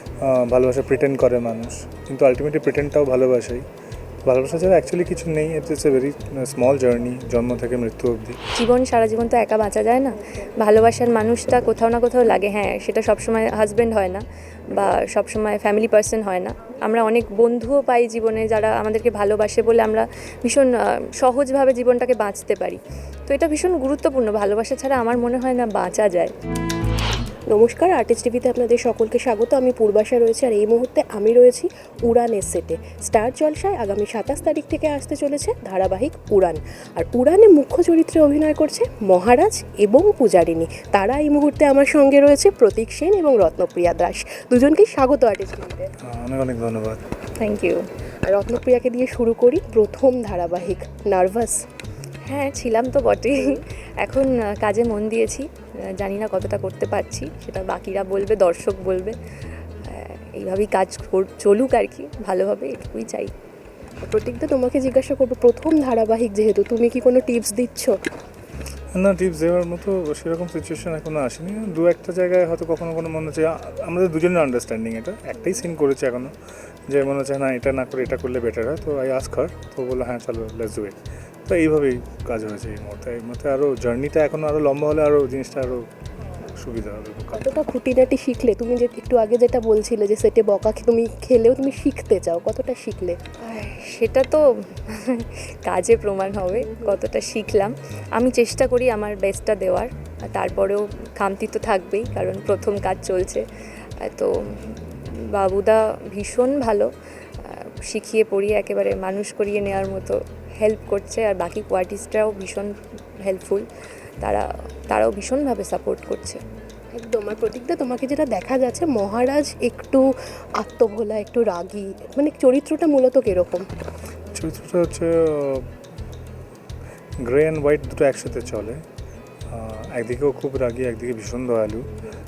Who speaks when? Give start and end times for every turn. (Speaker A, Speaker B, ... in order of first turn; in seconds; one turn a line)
Speaker A: 0.2-3.6
Speaker A: 4.2-8.4
Speaker B: 8.5-26.3
Speaker C: 27.5-45.9
Speaker A: 46.0-47.0
Speaker B: 47.4-47.9
Speaker C: 48.2-51.6
Speaker B: 52.3-59.2
Speaker C: 53.3-53.6
Speaker B: 59.8-63.3
Speaker C: 64.0-68.0
Speaker A: 68.9-76.3
Speaker A: 76.9-87.6
Speaker C: 87.3-93.2
Speaker B: 93.4-103.4
Speaker C: 96.5-97.0
Speaker B: 104.0-106.9
Speaker B: 107.4-113.7
Speaker B: 114.2-116.4
Speaker C: 117.0-123.6
Speaker A: 124.3-125.7
Speaker A: 127.2-128.8
Speaker A: 129.5-131.9